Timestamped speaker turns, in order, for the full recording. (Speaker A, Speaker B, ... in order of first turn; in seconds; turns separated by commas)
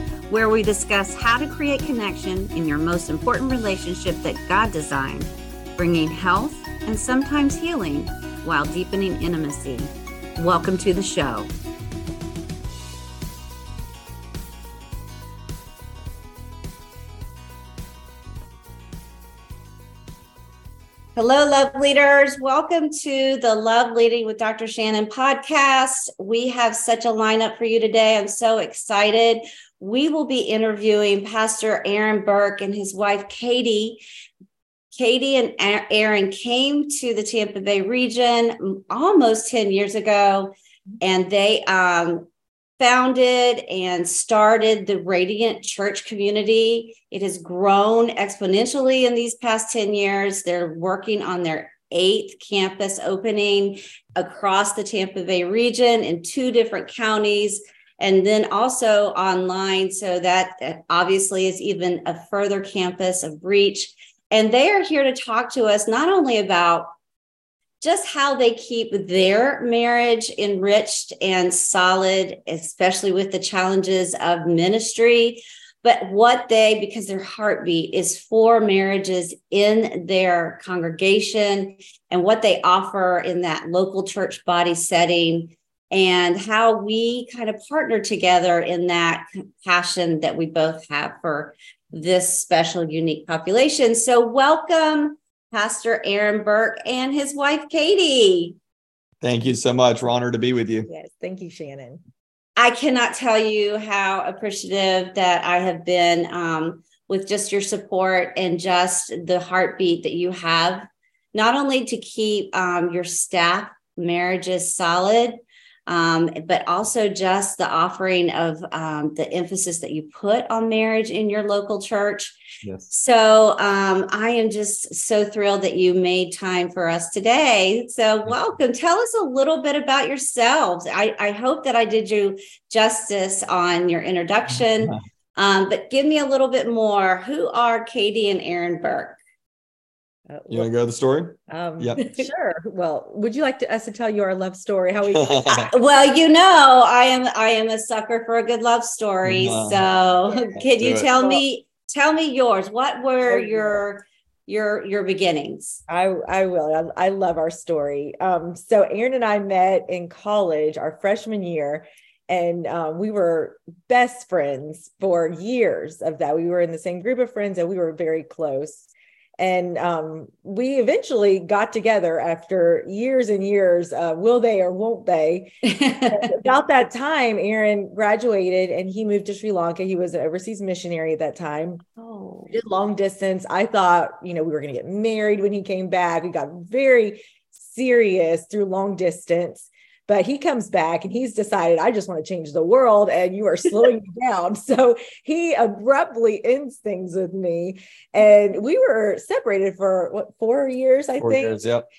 Speaker A: 0.3-11.5, Speaker A: 21.1-34.0, Speaker A: 34.9-42.2, Speaker A: 42.8-66.9, Speaker A: 67.8-98.5, Speaker B: 99.2-100.9, Speaker C: 100.9-102.0, Speaker A: 102.6-122.4, Speaker B: 122.6-122.9, Speaker A: 122.9-139.2, Speaker C: 140.3-140.7, Speaker B: 140.5-142.0, Speaker C: 141.5-145.6, Speaker B: 145.1-145.7, Speaker A: 145.5-155.8, Speaker B: 149.2-149.8, Speaker C: 150.3-151.4, Speaker B: 150.5-151.1, Speaker C: 153.3-153.8, Speaker C: 155.9-168.9, Speaker C: 169.4-175.5, Speaker A: 175.6-176.3, Speaker C: 176.1-201.6, Speaker B: 201.2-201.8